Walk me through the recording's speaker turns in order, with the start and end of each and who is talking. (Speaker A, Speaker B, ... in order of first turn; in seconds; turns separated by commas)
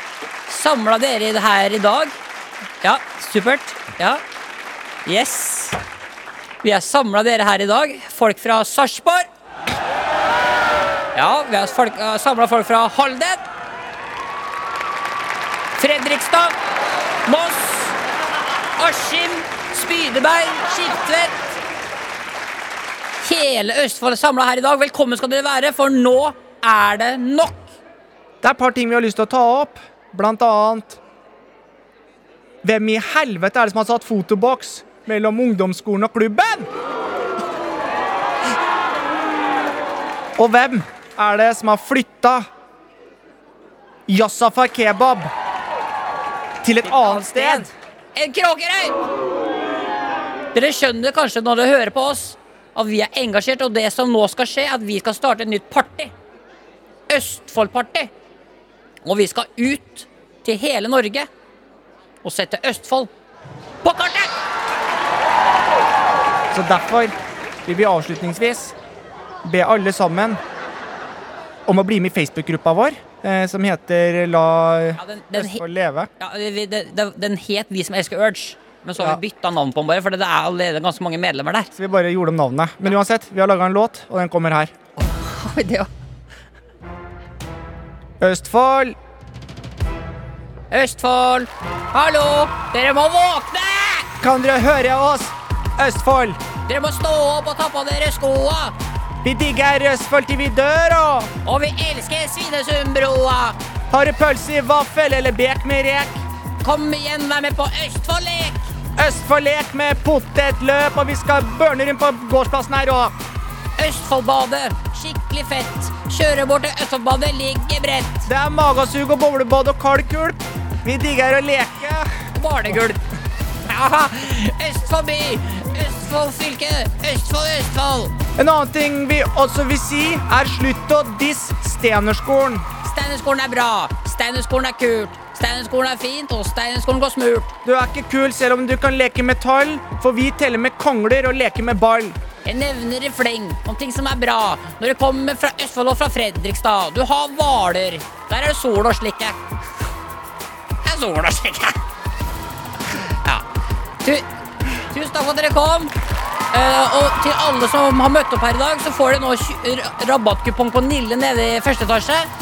Speaker A: 0.5-2.2, Speaker A: 2.8-4.2, Speaker A: 5.0-5.8, Speaker A: 6.6-9.3, Speaker A: 11.1-13.4, Speaker A: 15.8-16.5, Speaker A: 17.2-18.0, Speaker A: 18.8-21.6, Speaker A: 23.2-27.7, Speaker B: 28.4-31.0, Speaker B: 32.6-36.7, Speaker B: 40.4-42.5, Speaker B: 44.1-45.3, Speaker B: 46.6-47.7, Speaker A: 46.8-49.0, Speaker A: 50.5-56.1, Speaker A: 57.1-58.1, Speaker A: 59.0-61.3, Speaker A: 62.2-63.1, Speaker A: 63.8-64.3, Speaker B: 66.5-67.1, Speaker B: 67.7-68.7, Speaker B: 69.4-70.4, Speaker B: 71.7-76.1, Speaker A: 75.0-75.6, Speaker A: 76.2-81.7, Speaker B: 81.7-84.7, Speaker A: 85.0-85.9, Speaker B: 88.2-89.0, Speaker A: 90.7-94.1, Speaker B: 94.2-96.4, Speaker A: 96.7-98.7, Speaker B: 99.2-101.3, Speaker A: 101.4-103.6, Speaker B: 103.9-106.2, Speaker A: 106.6-108.7, Speaker B: 109.0-113.1, Speaker A: 113.8-118.3, Speaker B: 118.3-122.1, Speaker A: 122.3-123.0, Speaker A: 123.7-128.1, Speaker B: 128.3-132.7, Speaker A: 132.8-137.5, Speaker B: 137.6-142.2, Speaker A: 142.4-149.4, Speaker A: 150.8-151.8, Speaker A: 153.1-153.4, Speaker A: 154.9-155.9, Speaker A: 156.5-162.3